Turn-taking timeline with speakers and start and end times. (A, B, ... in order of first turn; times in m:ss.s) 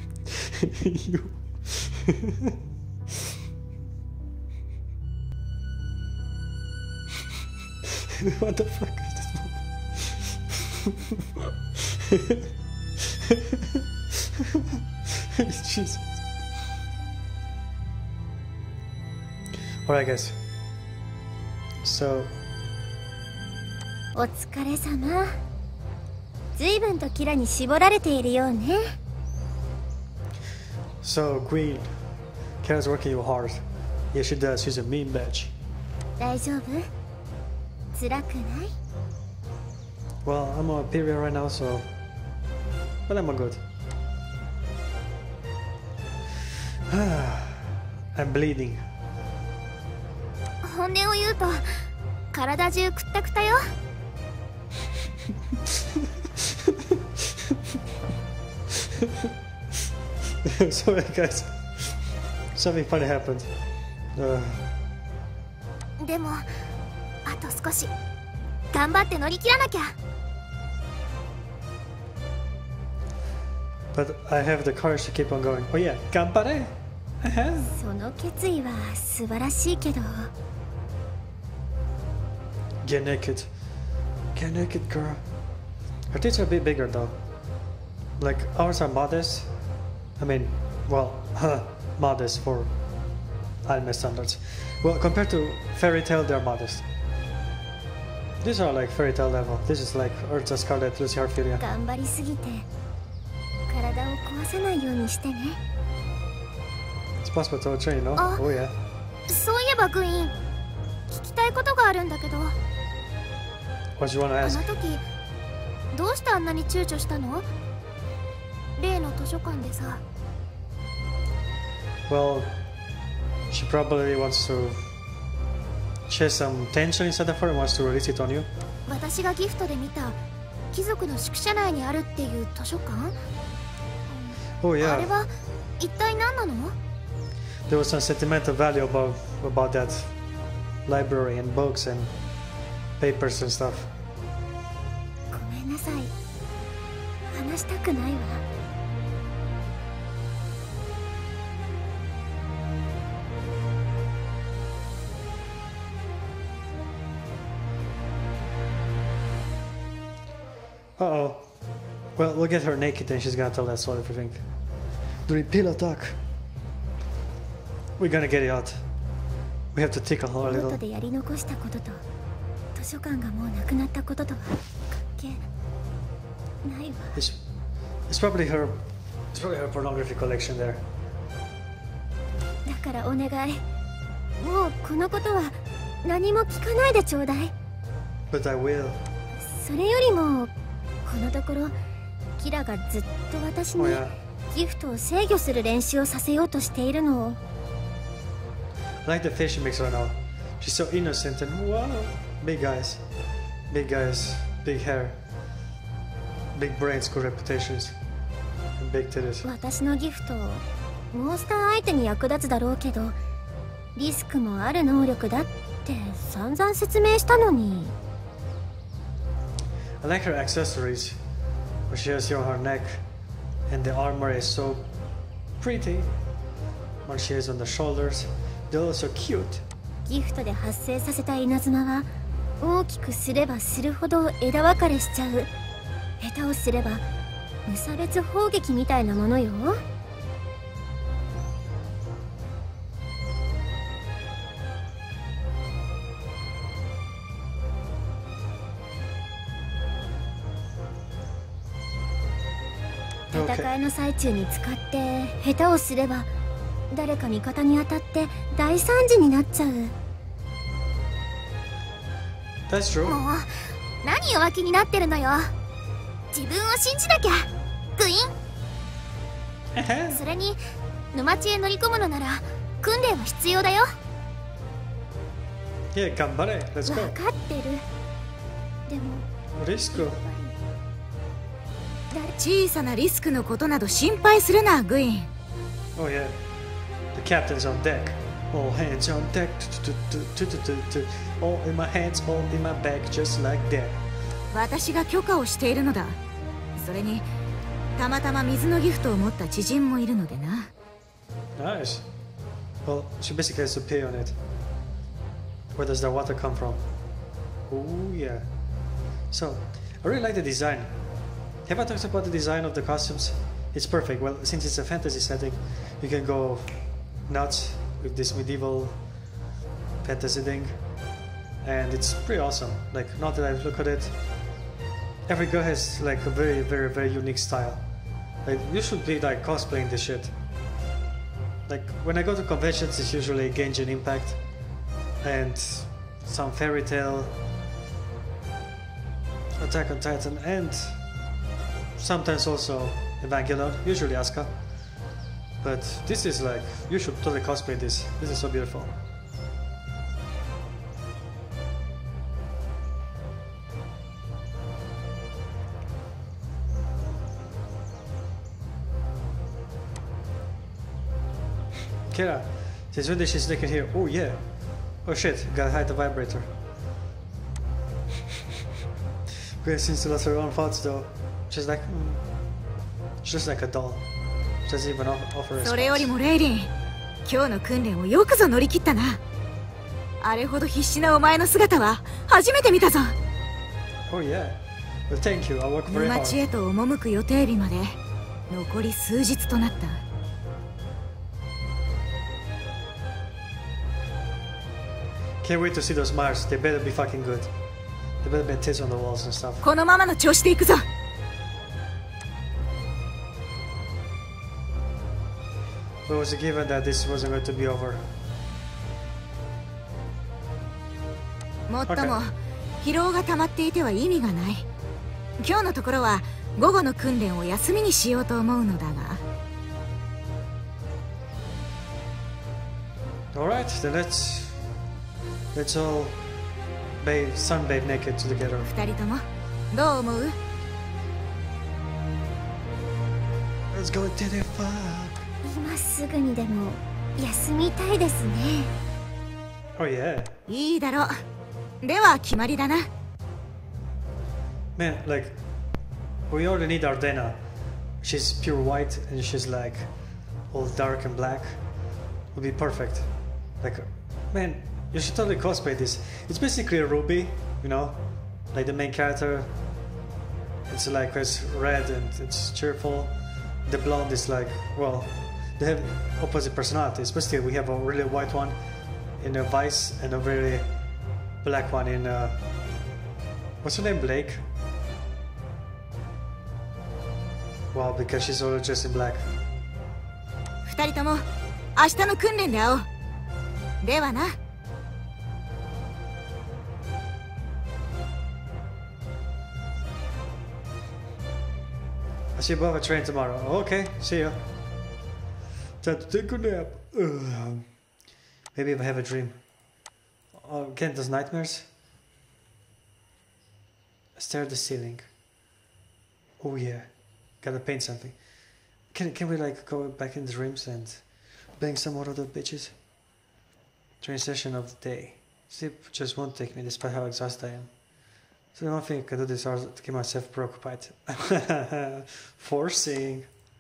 0:00.3-0:03.3 A
0:07.8-0:16.2 A
0:19.8-0:20.4 A
0:21.8-0:22.4 A
0:24.2-0:25.4 B
0:26.6-0:28.9 B
0:31.0-0:31.9 A
0:32.6-0:35.5 A
0:36.2-0:36.9 B
0:37.9-0:38.7 B
0:40.2-0:41.9 A
0:43.1-0:43.6 A
0:46.9-0:48.8 A
0:50.6-0:53.7 B
0:55.5-0:57.8 A
0:58.7-0:59.3 A
1:00.4-1:02.0 A
1:02.6-1:03.5 A
1:04.1-1:04.7 A
1:06.0-1:06.4 B
1:07.2-1:07.9 B
1:08.7-1:10.0 B
1:13.9-1:17.7 A
1:17.6-1:20.3 B
1:22.8-1:23.5 A
1:24.4-1:25.2 A
1:26.1-1:27.2 A
1:28.2-1:29.5 A
1:30.2-1:32.7 A
1:33.7-1:36.9 A
1:38.4-1:41.6 A
1:41.6-1:42.7 B
1:43.7-1:45.6 B
1:47.2-1:48.8 A
1:48.2-1:48.4 B
1:49.3-1:50.4 B
1:51.1-1:52.6 B
1:54.0-1:54.7 A
1:54.4-1:55.0 B
1:55.9-1:57.5 B
1:58.8-2:00.0 B
2:02.1-2:02.6 A
2:03.5-2:04.9 A
2:06.1-2:08.5 A
2:08.9-2:10.2 B
2:10.7-2:13.1 B
2:14.1-2:16.8 B
2:14.6-2:15.1 A
2:17.7-2:20.1 A
2:20.9-2:22.1 A
2:23.0-2:23.9 A
2:25.3-2:26.1 B
2:27.3-2:28.4 B
2:41.0-2:41.5 A
2:42.2-2:44.4 A
2:45.3-2:46.2 A
2:48.0-2:48.8 A
2:49.7-2:50.8 A
2:50.5-2:52.0 B
2:52.8-2:54.6 B
2:55.2-2:55.4 B
2:56.6-2:57.2 B
2:57.2-2:57.4 A
2:58.1-3:00.8 A
3:02.7-3:03.6 B
3:04.4-3:07.5 B
3:08.3-3:09.0 A
3:09.4-3:10.5 B
3:11.0-3:11.8 B
3:12.4-3:17.4 B
3:13.8-3:14.1 A
3:19.0-3:23.1 A
3:23.7-3:25.2 A
3:26.5-3:28.0 A
3:28.8-3:29.5 A
3:29.4-3:33.2 B
3:34.0-3:38.0 B
3:40.0-3:41.2 A
3:41.9-3:43.0 A
3:43.7-3:44.9 A
3:45.6-3:46.1 A
3:47.0-3:49.6 A
3:50.0-3:52.1 B
3:52.6-3:55.5 B
3:56.2-3:57.1 B
3:57.7-3:59.8 B
4:13.3-4:16.3 B
4:13.3-4:13.7 A
4:16.9-4:19.9 B
4:22.7-4:23.2 A
4:23.0-4:23.5 B
4:24.0-4:25.5 B
4:26.3-4:28.3 B
4:29.7-4:30.2 A
4:30.1-4:30.6 B
4:31.1-4:33.9 B
4:35.9-4:37.2 A
4:36.9-4:37.8 B
4:38.9-4:39.3 B
4:39.6-4:40.2 A
4:39.9-4:40.6 B
4:42.4-4:45.3 C
4:46.0-4:46.4 A
4:47.1-4:54.0 A
4:54.5-4:56.2 C
4:56.8-4:57.3 C
4:58.0-5:00.7 C
5:01.6-5:02.1 A
5:02.8-5:04.4 A
5:05.7-5:06.9 A
5:07.7-5:08.5 A
5:09.3-5:11.0 A
5:11.7-5:19.0 A
5:20.0-5:20.8 A
5:21.6-5:24.2 A
5:25.3-5:27.8 A
5:28.4-5:30.4 A
5:31.7-5:34.4 A
5:35.2-5:37.4 A
5:39.6-5:41.0 A
5:42.0-5:44.6 A
5:45.6-5:49.0 A
6:02.1-6:04.4 A
6:05.0-6:06.5 A
6:09.6-6:12.2 A
6:13.2-6:14.1 A
6:14.6-6:16.1 A
6:15.6-6:16.7 C
6:17.2-6:19.2 C
6:20.2-6:23.2 C
6:24.1-6:26.5 A
6:25.9-6:28.0 C
6:28.5-6:30.0 C
6:35.4-6:37.5 A
6:38.2-6:39.7 A
6:39.6-6:40.8 C
6:46.1-6:48.1 A
6:51.7-6:54.7 C
6:51.9-6:52.2 A
6:55.4-6:59.2 C
7:03.3-7:04.6 A
7:05.5-7:06.2 A
7:07.0-7:08.7 A
7:08.6-7:10.4 C
7:13.7-7:15.3 A
7:15.4-7:18.7 B
7:19.8-7:20.4 A
7:20.5-7:21.2 C
7:21.8-7:22.9 C
7:24.8-7:25.4 A
7:26.3-7:27.4 A
7:28.0-7:29.9 A
7:30.5-7:31.6 A
7:32.3-7:38.0 A
7:38.5-7:39.5 A
7:40.7-7:48.6 A
7:49.2-7:50.7 A
7:51.4-7:52.4 A
7:53.6-7:54.4 A
7:57.7-7:59.3 A
8:00.6-8:01.2 C
8:01.8-8:02.8 C
8:03.8-8:04.4 C
8:12.4-8:14.4 A
8:15.8-8:17.7 A
8:18.5-8:19.4 A
8:20.3-8:21.7 A
8:24.2-8:25.1 A
8:26.4-8:28.2 A
8:28.9-8:31.0 A
8:31.6-8:32.7 A
8:34.0-8:37.7 A
8:38.5-8:43.3 A